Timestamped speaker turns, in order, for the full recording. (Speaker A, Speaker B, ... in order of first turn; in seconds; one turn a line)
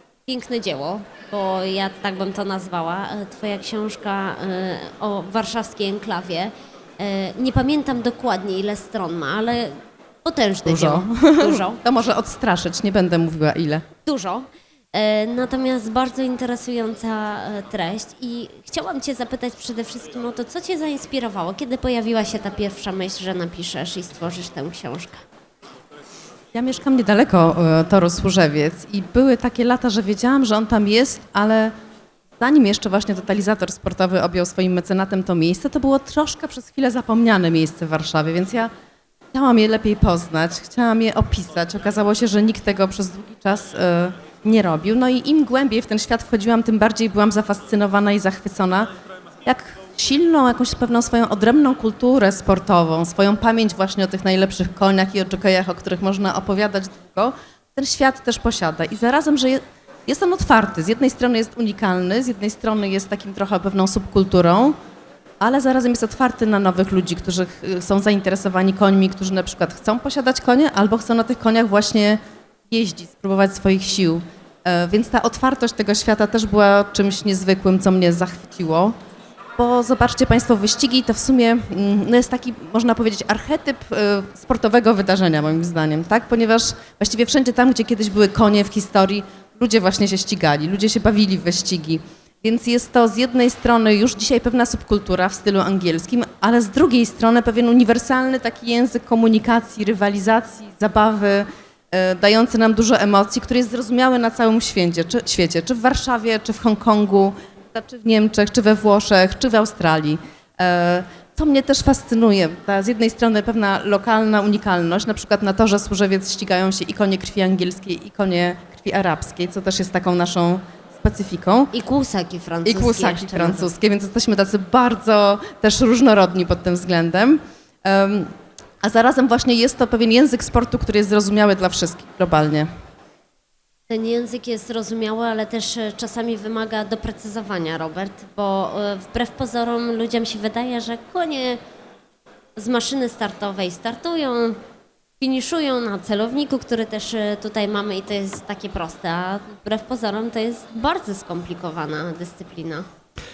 Speaker A: 0.3-11.8
Speaker B: 10.7-13.8
Speaker A: 14.0-25.2
Speaker B: 26.5-31.7
Speaker B: 32.4-38.7
Speaker B: 39.3-48.9
Speaker B: 49.4-64.8
Speaker B: 65.4-79.0
Speaker B: 79.6-121.7
Speaker A: 121.7-123.7
Speaker B: 122.6-132.7
Speaker A: 133.9-141.6
Speaker A: 142.6-144.6
Speaker A: 145.2-152.8